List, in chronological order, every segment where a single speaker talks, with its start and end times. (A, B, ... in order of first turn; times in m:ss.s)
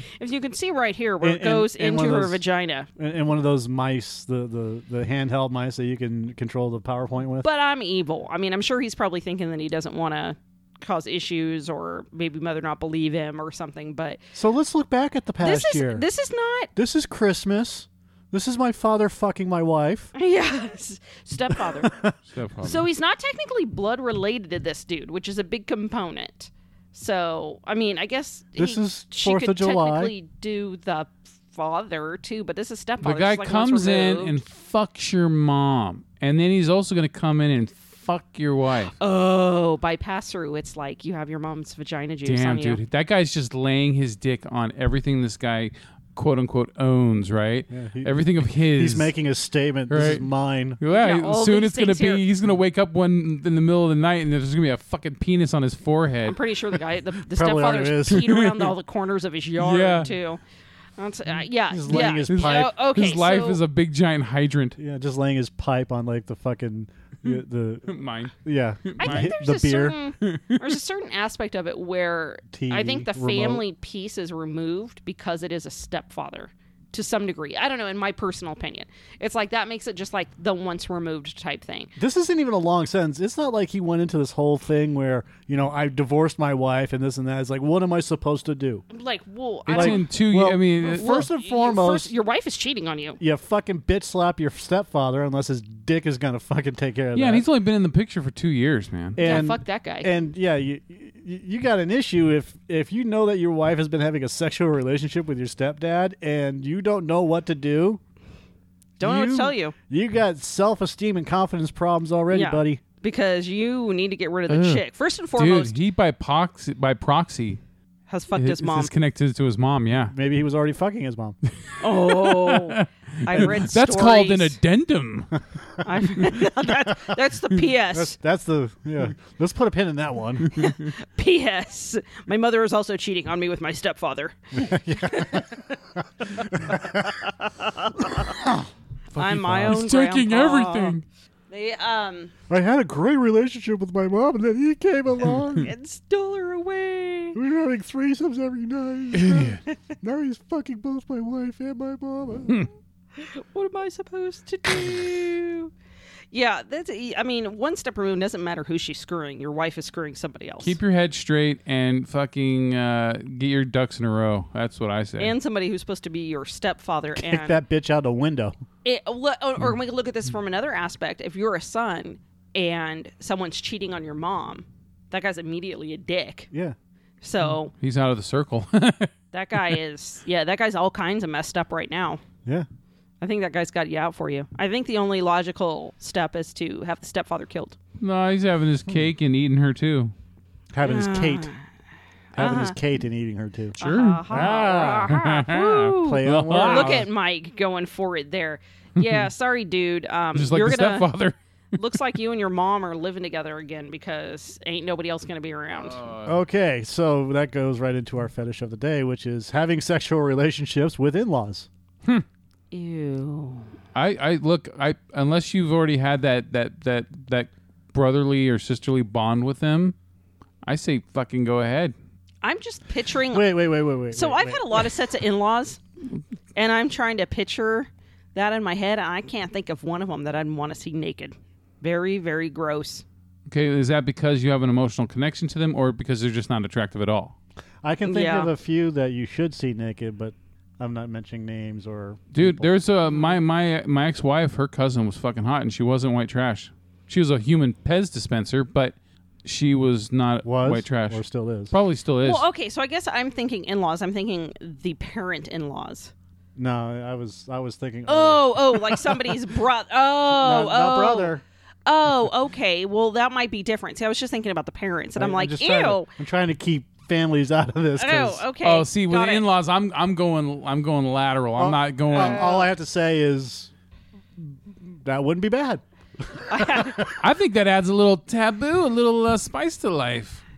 0:00.2-0:02.9 A
0:01.2-0:02.4 B
0:03.0-0:07.5 B
0:07.4-0:14.2 A
0:14.4-0:16.0 B
0:15.4-0:16.7 A
0:16.8-0:20.1 B
0:20.2-0:22.0 A
0:21.8-0:22.2 B
0:22.3-0:22.9 C
0:22.6-0:34.4 A
0:28.6-0:30.1 B
0:33.0-0:38.9 C
0:39.0-0:42.8 A
0:42.2-0:49.1 C
0:47.7-0:50.8 B
0:49.9-0:50.3 C
0:50.8-0:56.4 C
0:50.9-0:52.2 A
0:56.3-1:00.4 A
0:57.3-0:58.2 B
0:58.1-0:58.7 C
0:59.6-1:00.1 C
1:01.0-1:03.6 A
1:01.7-1:02.7 B
1:01.9-1:04.8 C
1:04.8-1:10.0 B
1:07.2-1:09.3 C
1:09.0-1:21.9 A
1:10.2-1:10.8 C
1:12.5-1:13.6 B
1:22.0-1:28.8 B
1:28.9-1:30.1 A
1:29.7-1:31.2 C
1:29.7-1:32.1 B
1:30.9-1:33.2 A
1:33.2-1:37.5 B
1:37.1-1:39.4 C
1:39.2-1:48.0 B
1:39.2-1:40.1 A
1:49.0-1:49.8 A
1:49.0-1:52.8 B
1:52.3-1:55.8 A
1:54.5-1:54.8 C
1:55.4-1:57.6 C
1:58.1-1:58.9 A
1:58.4-2:00.1 C
2:00.1-2:01.4 B
2:01.7-2:05.3 C
2:01.8-2:04.6 A
2:05.8-2:08.2 A
2:07.9-2:10.6 B
2:10.6-2:10.8 C
2:10.6-2:15.8 A
2:14.5-2:15.5 B
2:16.4-2:18.4 A
2:16.5-2:17.1 B
2:19.1-2:21.0 C
2:19.2-2:22.3 A
2:22.5-2:25.7 B
2:25.6-2:27.4 A
2:27.4-2:32.7 B
2:29.1-2:29.6 C
2:33.2-2:35.7 A
2:36.3-2:40.8 A
2:40.6-2:45.4 C
2:45.2-2:47.6 A
2:47.2-2:48.6 B
2:48.8-2:56.5 A
2:57.2-2:57.7 A
2:57.8-2:59.8 C
2:59.3-3:02.2 A
3:03.2-3:07.8 A
3:08.0-3:10.1 C
3:10.7-3:11.5 B
3:10.8-3:11.6 A
3:12.3-3:12.8 A
3:12.4-3:13.8 B
3:13.8-3:17.1 C
3:13.8-3:21.1 A
3:14.3-3:15.1 B
3:16.0-3:17.0 B
3:19.0-3:19.3 C
3:20.4-3:21.8 C
3:21.8-3:26.0 A
3:25.8-3:26.4 C
3:26.3-3:31.7 B
3:32.7-3:33.7 A
3:33.9-3:40.0 C
3:40.6-3:42.0 C
3:42.4-3:45.8 A
3:43.3-3:44.8 B
3:46.6-3:53.0 A
3:53.5-3:57.4 C
3:57.8-4:02.7 B
3:58.0-3:58.5 A
4:02.3-4:12.4 C
4:03.1-4:03.4 A
4:10.4-4:11.7 B
4:12.2-4:16.1 A
4:16.6-4:19.3 B
4:18.1-4:21.3 A
4:20.3-4:21.4 B
4:21.9-4:26.1 A
4:25.2-4:28.4 B
4:28.0-4:29.5 A
4:28.6-4:32.5 C
4:31.6-4:33.7 B
4:32.1-4:32.7 A
4:34.8-4:37.2 B
4:36.5-4:37.1 A
4:37.2-4:40.4 C